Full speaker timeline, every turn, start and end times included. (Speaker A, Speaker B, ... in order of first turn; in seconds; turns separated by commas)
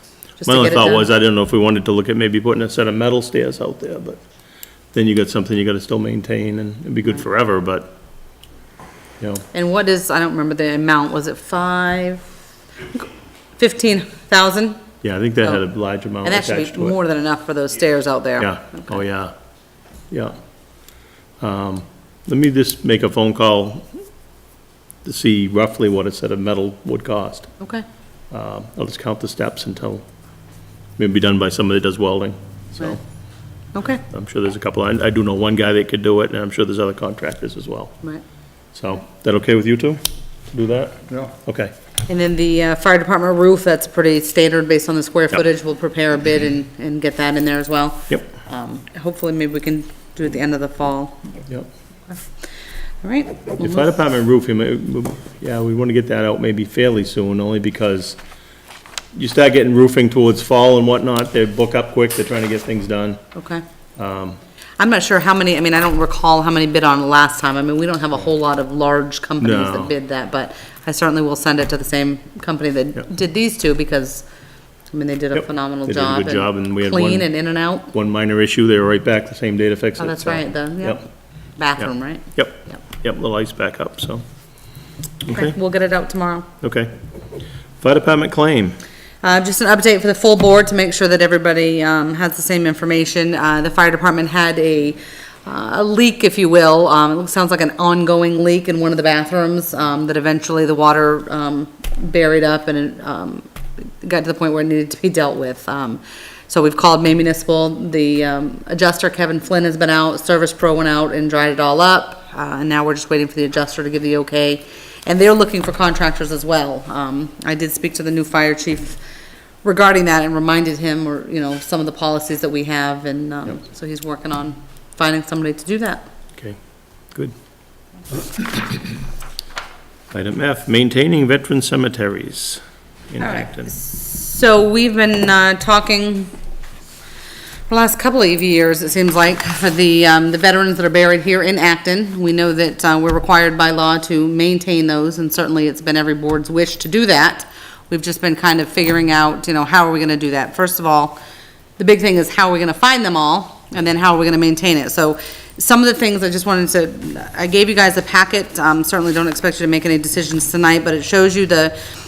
Speaker A: 0.4-1.1, Speaker B: 0.4-4.2, Speaker B: 4.9-7.9, Speaker B: 9.2-9.4, Speaker A: 9.5-12.2, Speaker A: 12.9-14.8, Speaker B: 15.0-16.9, Speaker A: 16.2-19.0, Speaker B: 18.4-19.3, Speaker B: 21.4-23.9, Speaker B: 25.0-27.5, Speaker A: 27.6-27.9, Speaker B: 28.3-30.0, Speaker B: 31.0-33.0, Speaker A: 33.7-34.0, Speaker B: 34.1-37.9, Speaker B: 38.7-40.0, Speaker B: 40.5-41.7, Speaker A: 42.1-51.2, Speaker A: 53.0-53.9, Speaker B: 53.6-58.2, Speaker B: 59.1-63.2, Speaker A: 63.3-63.6, Speaker B: 64.0-64.4, Speaker A: 64.8-74.2, Speaker B: 69.4-69.9, Speaker A: 74.9-77.9, Speaker B: 75.4-77.3, Speaker B: 77.9-81.0, Speaker A: 80.0-81.0, Speaker A: 81.6-82.3, Speaker B: 81.8-84.2, Speaker A: 85.2-86.5, Speaker B: 85.3-85.5, Speaker B: 86.6-86.9, Speaker B: 87.8-88.8, Speaker A: 89.2-119.0, Speaker A: 119.6-126.0, Speaker B: 130.1-133.7, Speaker A: 133.2-136.3, Speaker A: 137.7-151.2, Speaker A: 151.8-161.8